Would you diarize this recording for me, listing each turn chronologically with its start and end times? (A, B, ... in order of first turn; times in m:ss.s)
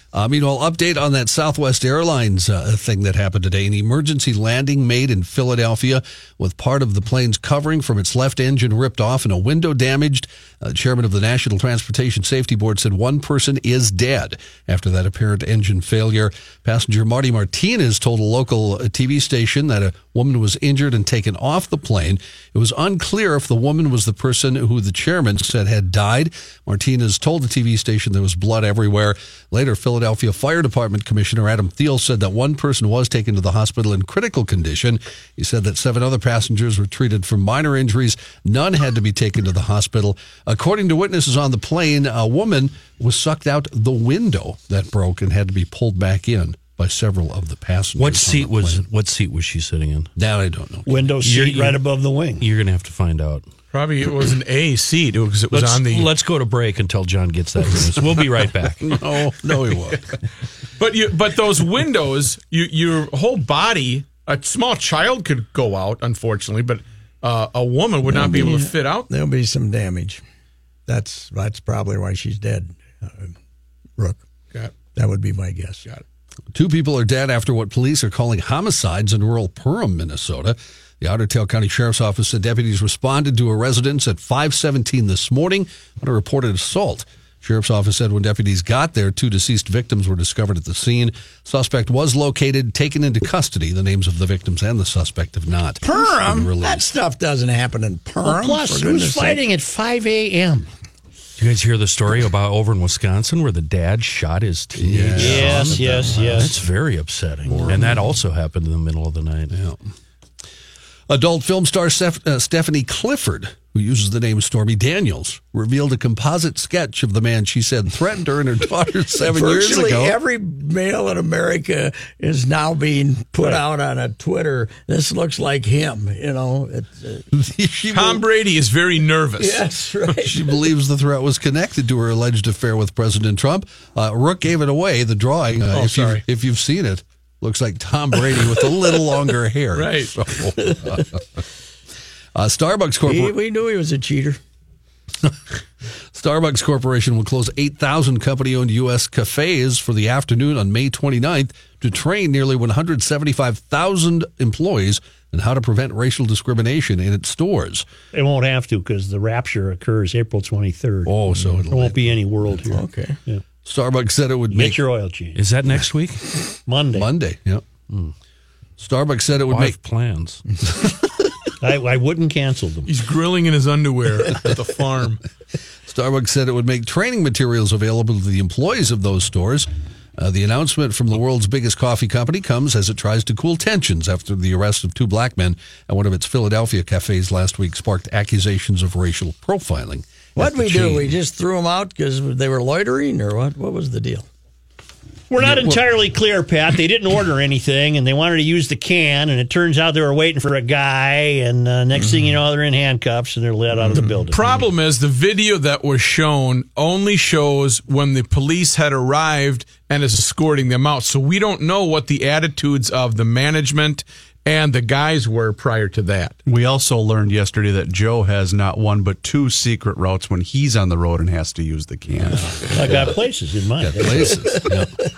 0:00.1-0:48.8 A
0:48.0-0:50.1 B
0:50.2-0:51.0 A
0:50.9-0:52.4 C
0:51.2-0:51.8 B
0:52.4-0:53.4 B
0:53.7-0:56.1 D
0:55.5-0:59.0 B
0:58.8-1:00.1 A
1:00.8-1:09.1 D
1:08.0-1:10.2 E
1:10.9-1:13.3 E
1:14.9-1:15.8 E
1:16.5-1:36.9 A
1:35.8-1:39.4 E
1:38.2-1:40.7 C
1:41.4-1:49.6 B
1:44.8-1:46.4 A
1:45.2-1:46.5 C
1:47.5-1:47.8 A
1:49.5-1:49.9 A
1:51.1-2:00.2 A
1:59.2-2:07.2 E
2:07.3-2:08.2 A
2:07.9-2:09.6 D
2:09.4-2:10.4 E
2:10.2-2:21.4 A
2:19.7-2:20.1 D
2:22.4-2:23.4 A
2:23.1-2:24.4 E
2:26.1-2:37.9 A
2:38.1-2:41.1 C
2:41.1-2:42.1 A
2:41.7-2:43.4 C
2:42.7-2:43.2 E
2:43.6-2:44.8 A
2:44.5-2:45.4 C
2:45.4-2:46.2 B
2:46.6-2:47.1 C
2:47.0-2:47.6 A
2:48.8-2:49.8 A
2:49.5-2:50.4 B
2:51.6-2:52.9 C
2:52.9-2:55.2 D
2:55.9-3:11.1 A
3:10.4-3:14.3 E
3:15.3-3:24.5 C
3:15.4-3:15.8 A
3:22.0-3:22.2 E
3:23.8-3:24.1 E
3:24.2-3:36.4 D
3:36.5-3:42.7 F
3:42.7-3:44.4 C
3:43.8-3:44.9 A